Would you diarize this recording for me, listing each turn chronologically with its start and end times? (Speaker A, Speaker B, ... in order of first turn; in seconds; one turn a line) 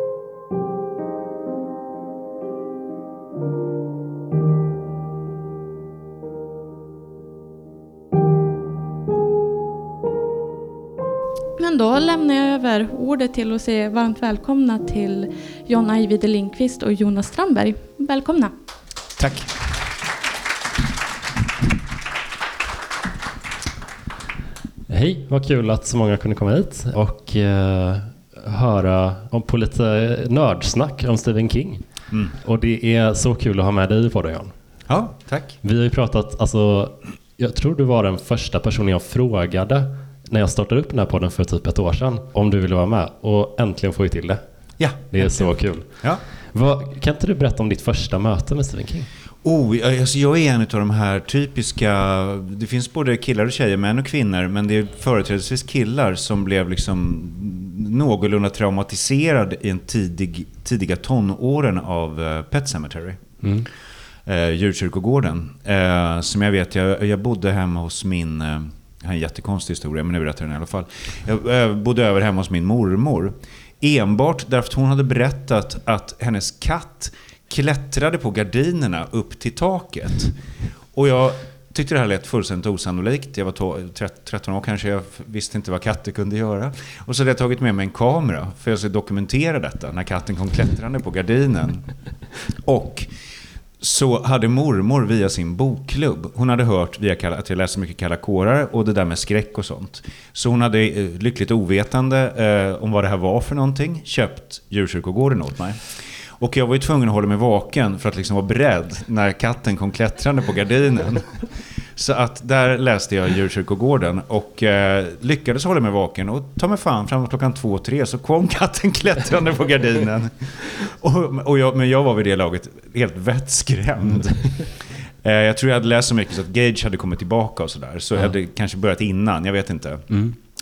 Speaker A: 11.6-18.5
Speaker B: 19.2-19.5
Speaker C: 24.9-31.8
Speaker C: 32.4-34.5
Speaker B: 34.9-35.6
Speaker C: 35.6-44.4
Speaker B: 44.8-46.2
Speaker C: 45.1-49.1
Speaker B: 49.4-63.2
Speaker C: 63.4-63.7
Speaker B: 64.2-80.4
Speaker B: 80.9-91.9
Speaker B: 92.7-93.1
Speaker B: 93.8-130.1